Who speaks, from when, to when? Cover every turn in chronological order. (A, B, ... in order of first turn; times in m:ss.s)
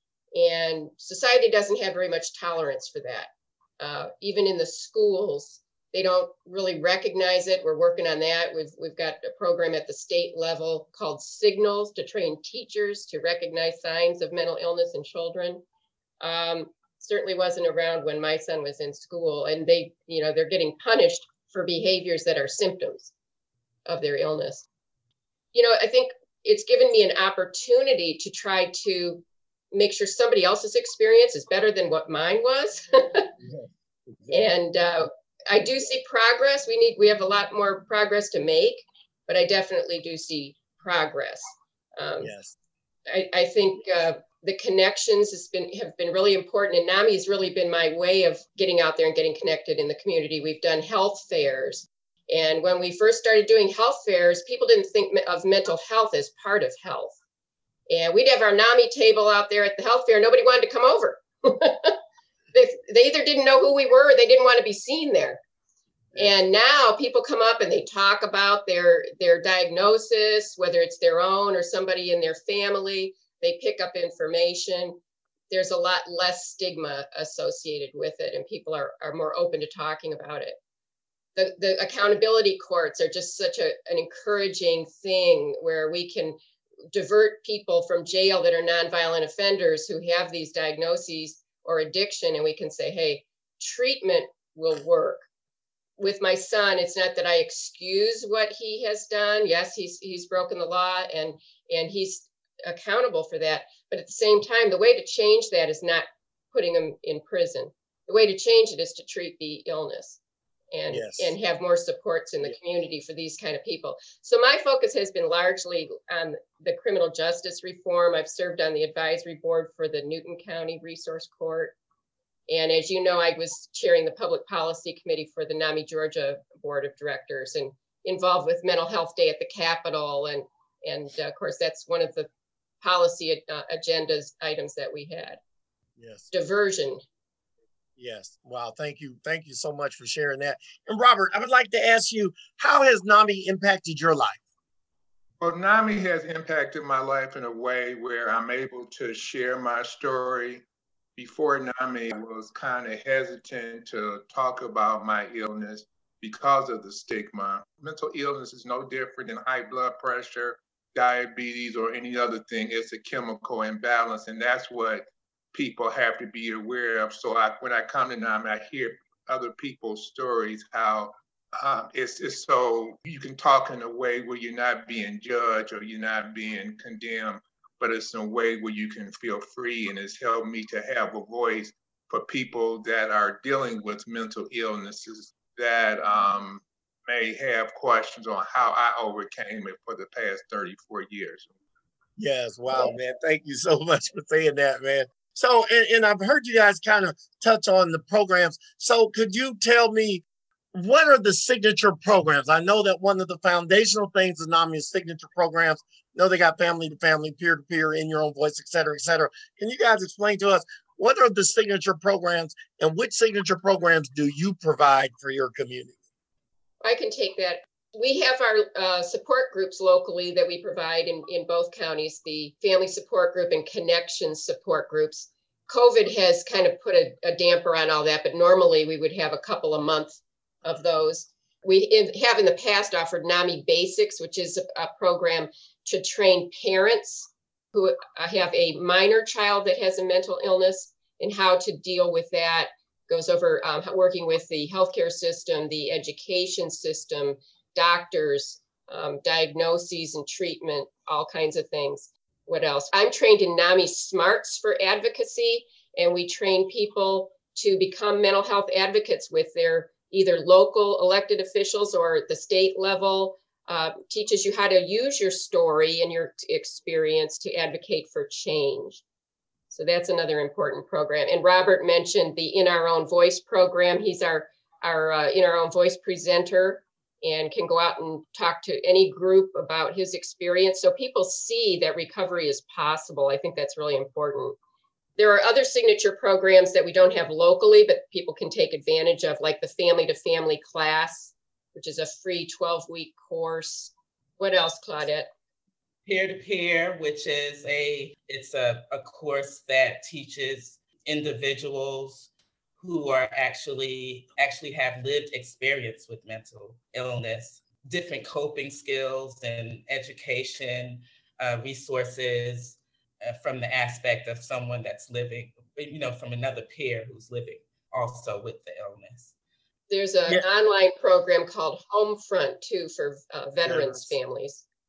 0:00.3-0:15.6 A
0:16.2-0:23.1 A
0:23.9-0:24.6 A
0:25.5-0:33.3 A
0:33.4-0:34.5 B
0:34.3-0:42.3 A
0:42.2-0:42.6 B
0:43.1-0:57.2 A
0:57.9-1:02.0 A
1:02.5-1:05.4 A
1:06.2-1:15.0 A
1:15.5-1:20.6 A
1:21.4-1:26.4 A
1:26.9-1:35.2 A
1:36.0-1:50.2 A
1:50.7-2:01.8 A
1:50.9-1:51.3 B
2:02.5-2:12.3 A
2:12.8-2:15.4 A
2:16.0-2:16.3 B
2:16.3-2:17.0 A
2:18.0-2:24.4 B
2:25.4-2:30.6 C
2:31.2-3:11.5 C
3:12.2-3:36.0 B
3:36.8-4:29.0 A
4:29.7-4:44.6 A
4:45.2-4:55.3 A
4:56.1-5:19.3 D
5:19.9-5:24.6 A
5:23.6-5:24.1 B